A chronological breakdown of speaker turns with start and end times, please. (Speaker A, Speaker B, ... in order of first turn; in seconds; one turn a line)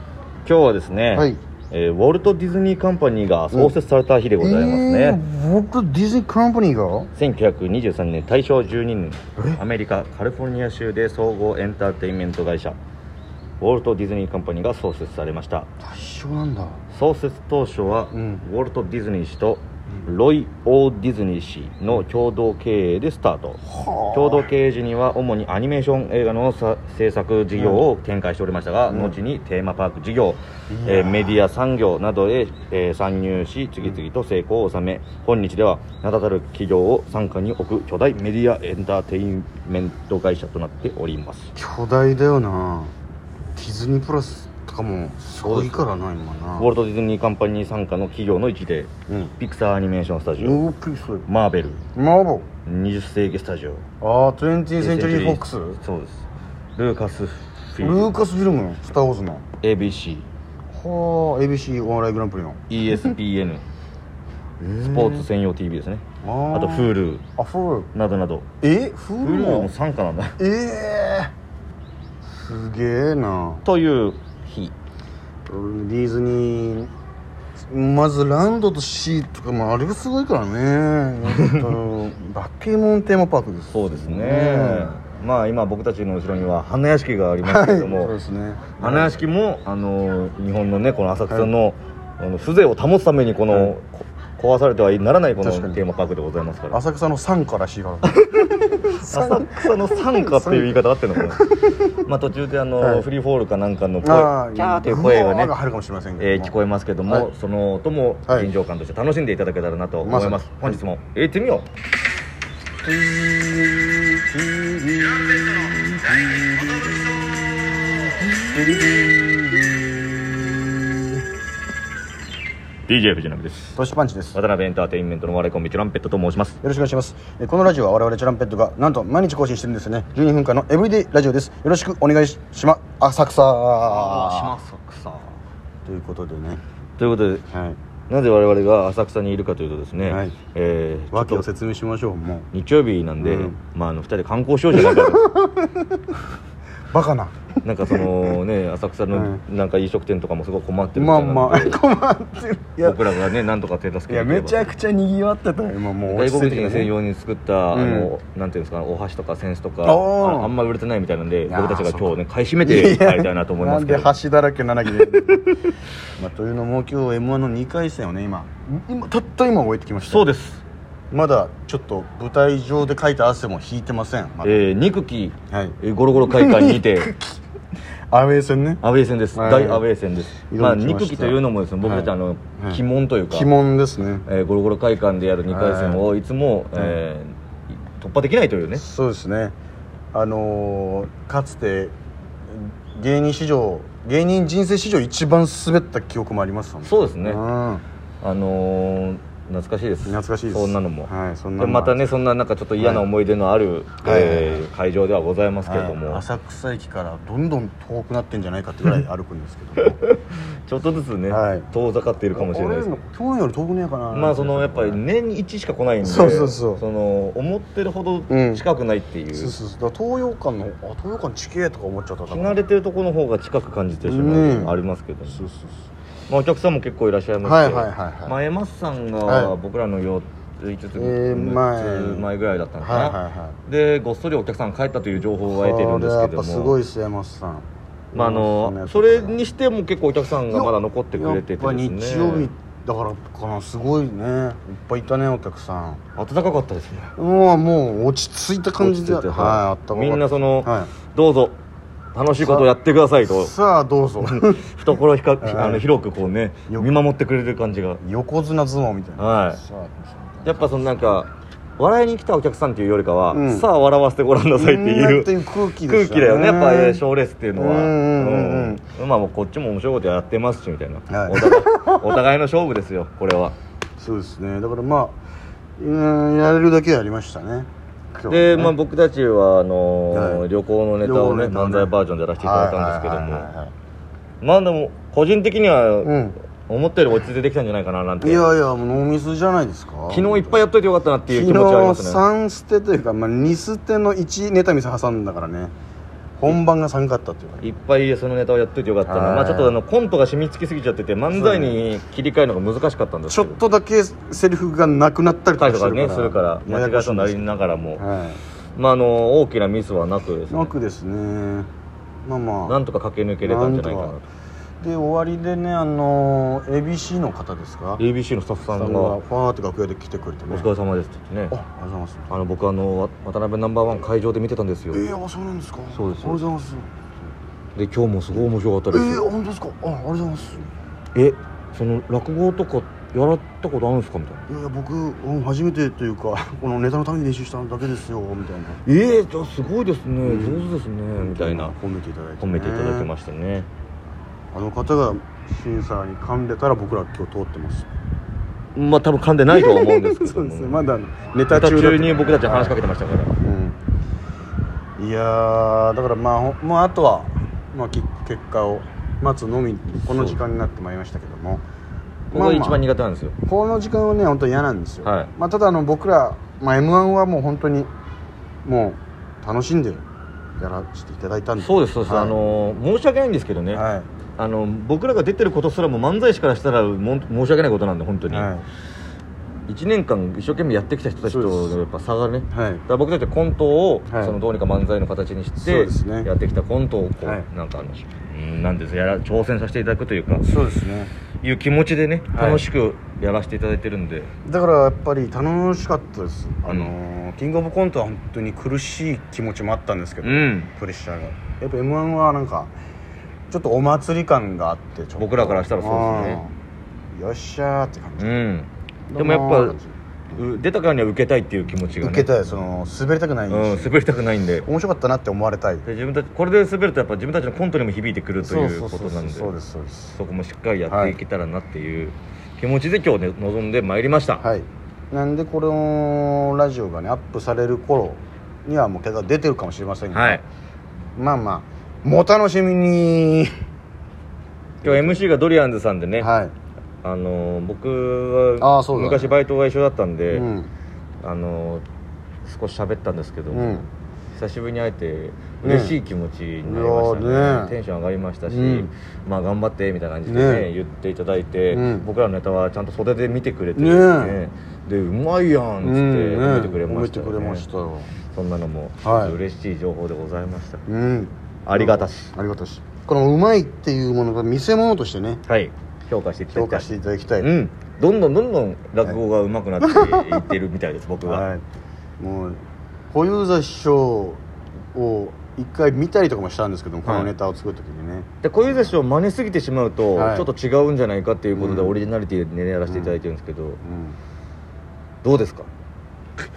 Speaker A: 0.5-5.2
Speaker B: 1.1-1.4
Speaker B: 4.4-7.1
Speaker A: 7.2-12.8
Speaker A: 13.6-15.7
Speaker B: 15.8-16.8
Speaker A: 16.9-23.6
Speaker B: 18.1-18.4
Speaker B: 23.6-24.5
Speaker A: 24.1-41.5
Speaker B: 27.5-27.8
Speaker B: 28.9-29.2
Speaker B: 30.7-31.4
Speaker B: 41.5-42.9
Speaker B: 43.5-46.7
Speaker A: 45.4-45.8
Speaker A: 46.6-50.6
Speaker B: 49.1-49.4
Speaker B: 50.4-51.3
Speaker A: 51.3-51.8
Speaker B: 52.0-52.5
Speaker A: 52.6-53.9
Speaker B: 54.0-55.8
Speaker A: 54.8-56.3
Speaker A: 56.8-58.1
Speaker B: 57.8-59.5
Speaker A: 59.6-60.2
Speaker B: 60.7-63.2
Speaker A: 62.7-63.6
Speaker B: 64.6-65.3
Speaker A: 64.7-67.2
Speaker B: 66.2-67.9
Speaker A: 67.9-68.5
Speaker B: 68.6-69.7
Speaker A: 69.2-70.4
Speaker B: 70.4-71.3
Speaker B: 72.5-73.6
Speaker A: 73.7-74.7
Speaker B: 75.5-76.9
Speaker B: 77.7-84.9
Speaker A: 83.7-88.1
Speaker B: 87.4-89.1
Speaker A: 88.8-96.8
Speaker B: 95.4-95.8
Speaker B: 96.7-102.0
Speaker A: 98.1-105.5
Speaker B: 102.8-103.1
Speaker B: 104.0-106.6
Speaker A: 106.2-111.7
Speaker B: 110.0-110.8
Speaker B: 112.8-121.2
Speaker A: 122.9-123.8
Speaker B: 123.8-124.4
Speaker A: 124.3-126.6
Speaker B: 126.6-134.5
Speaker A: 133.8-135.3
Speaker B: 135.8-136.6
Speaker A: 137.0-137.4
Speaker B: 137.5-137.8
Speaker A: 138.1-141.4
Speaker B: 140.1-140.4
Speaker B: 141.1-142.5
Speaker A: 142.5-145.3
Speaker B: 143.2-143.6
Speaker B: 144.7-146.1
Speaker B: 146.9-148.4
Speaker A: 147.6-151.8
Speaker B: 149.1-149.4
Speaker B: 150.9-153.3
Speaker A: 152.8-154.7
Speaker B: 154.1-156.9
Speaker A: 156.1-164.2
Speaker B: 157.7-158.1
Speaker B: 159.8-160.5
Speaker B: 161.5-165.6
Speaker B: 166.2-170.3
Speaker A: 170.0-170.6
Speaker B: 171.1-174.6
Speaker A: 174.4-177.1
Speaker B: 175.5-177.3
Speaker B: 178.1-178.8
Speaker A: 178.8-183.5
Speaker B: 179.3-179.8
Speaker B: 180.5-184.2
Speaker A: 184.3-188.8
Speaker B: 185.5-186.1
Speaker B: 188.8-189.6
Speaker B: 190.1-191.9
Speaker B: 192.5-197.8
Speaker A: 196.8-197.4
Speaker A: 198.2-206.2
Speaker B: 200.1-202.0
Speaker B: 202.8-203.1
Speaker B: 204.0-204.7
Speaker B: 205.7-210.0
Speaker A: 209.8-213.0
Speaker B: 211.3-211.7
Speaker B: 212.3-215.0
Speaker A: 214.1-219.6
Speaker B: 216.0-216.8
Speaker B: 218.3-218.6
Speaker B: 219.3-222.6
Speaker A: 222.3-225.4
Speaker B: 224.0-224.8
Speaker B: 225.3-225.9
Speaker A: 226.3-236.8
Speaker B: 227.4-228.4
Speaker B: 229.2-229.6
Speaker B: 230.9-232.3
Speaker B: 232.8-233.6
Speaker B: 235.5-239.4
Speaker A: 238.1-242.5
Speaker B: 240.5-246.0
Speaker A: 246.2-247.1
Speaker B: 247.2-250.9
Speaker A: 248.8-251.6
Speaker A: 252.2-253.5
Speaker B: 252.4-252.7
Speaker B: 253.2-254.7
Speaker A: 254.2-258.0
Speaker B: 255.4-255.9
Speaker B: 258.0-261.1
Speaker A: 259.2-259.6
Speaker A: 260.4-273.6
Speaker B: 263.3-263.7
Speaker B: 264.6-267.0
Speaker B: 267.6-268.8
Speaker B: 271.1-272.2
Speaker B: 274.0-275.2
Speaker B: 275.8-278.8
Speaker A: 278.3-283.5
Speaker B: 280.1-280.5
Speaker B: 281.0-283.7
Speaker A: 284.4-286.2
Speaker B: 286.0-286.4
Speaker A: 286.7-288.5
Speaker B: 288.2-290.6
Speaker A: 290.1-292.2
Speaker B: 291.3-295.7
Speaker B: 296.4-297.7
Speaker A: 297.6-303.6
Speaker B: 299.1-299.8
Speaker B: 301.3-301.8
Speaker B: 303.3-308.4
Speaker A: 305.6-308.0
Speaker A: 308.8-310.7
Speaker B: 310.5-311.7
Speaker B: 312.2-312.8
Speaker A: 312.7-314.3
Speaker B: 313.4-314.2
Speaker B: 314.8-318.0
Speaker A: 318.0-319.2
Speaker B: 318.7-320.7
Speaker A: 320.5-321.6
Speaker B: 321.5-322.3
Speaker A: 322.3-325.0
Speaker B: 324.9-326.9
Speaker A: 325.9-326.4
Speaker A: 327.8-329.2
Speaker B: 328.9-330.7
Speaker A: 331.1-334.4
Speaker B: 334.5-338.8
Speaker A: 338.9-341.8
Speaker B: 340.2-343.1
Speaker A: 342.4-343.7
Speaker B: 344.5-347.9
Speaker A: 348.8-350.8
Speaker B: 349.5-352.8
Speaker A: 351.5-353.3
Speaker B: 353.4-353.8
Speaker B: 355.0-361.6
Speaker A: 360.1-360.4
Speaker B: 362.3-362.8
Speaker A: 362.3-363.4
Speaker B: 363.5-367.9
Speaker A: 365.0-365.3
Speaker B: 368.6-370.0
Speaker B: 370.6-372.4
Speaker A: 371.6-373.8
Speaker B: 373.7-374.1
Speaker A: 374.4-378.5
Speaker B: 378.3-378.6
Speaker A: 379.7-390.4
Speaker B: 381.3-381.8
Speaker B: 382.5-382.8
Speaker B: 384.1-384.4
Speaker B: 385.6-386.3
Speaker B: 390.4-391.1
Speaker A: 391.4-394.3
Speaker B: 392.3-392.6
Speaker B: 394.4-402.7
Speaker A: 400.2-400.7
Speaker B: 403.5-406.5
Speaker A: 405.2-406.4
Speaker B: 407.1-408.4
Speaker A: 408.2-409.8
Speaker B: 409.1-409.9
Speaker A: 410.3-412.3
Speaker B: 412.0-414.0
Speaker A: 413.5-414.7
Speaker B: 414.6-415.9
Speaker A: 415.9-419.5
Speaker B: 418.4-420.2
Speaker A: 420.1-424.5
Speaker B: 420.9-421.2
Speaker B: 424.4-430.4
Speaker A: 430.1-430.4
Speaker B: 431.2-433.5
Speaker B: 434.8-435.2
Speaker A: 434.8-436.3
Speaker B: 436.2-436.5
Speaker A: 437.0-440.5
Speaker B: 438.6-439.4
Speaker B: 440.3-440.7
Speaker A: 441.2-441.8
Speaker A: 442.4-457.6
Speaker B: 443.5-443.9
Speaker B: 445.6-446.0
Speaker B: 446.6-447.8
Speaker B: 448.5-448.9
Speaker B: 450.3-450.7
Speaker B: 451.7-452.1
Speaker B: 453.8-454.4
Speaker B: 455.8-458.1
Speaker A: 458.3-460.8
Speaker B: 459.0-459.4
Speaker B: 460.9-465.4
Speaker A: 461.6-462.3
Speaker A: 465.5-471.4
Speaker B: 466.5-467.5
Speaker B: 469.8-470.5
Speaker B: 471.2-471.6
Speaker B: 472.2-472.6
Speaker B: 473.1-474.4
Speaker B: 474.9-478.9
Speaker A: 477.1-477.3
Speaker A: 478.4-483.8
Speaker B: 480.1-480.5
Speaker B: 481.6-482.0
Speaker B: 482.9-483.2
Speaker B: 483.8-484.2
Speaker A: 485.2-485.7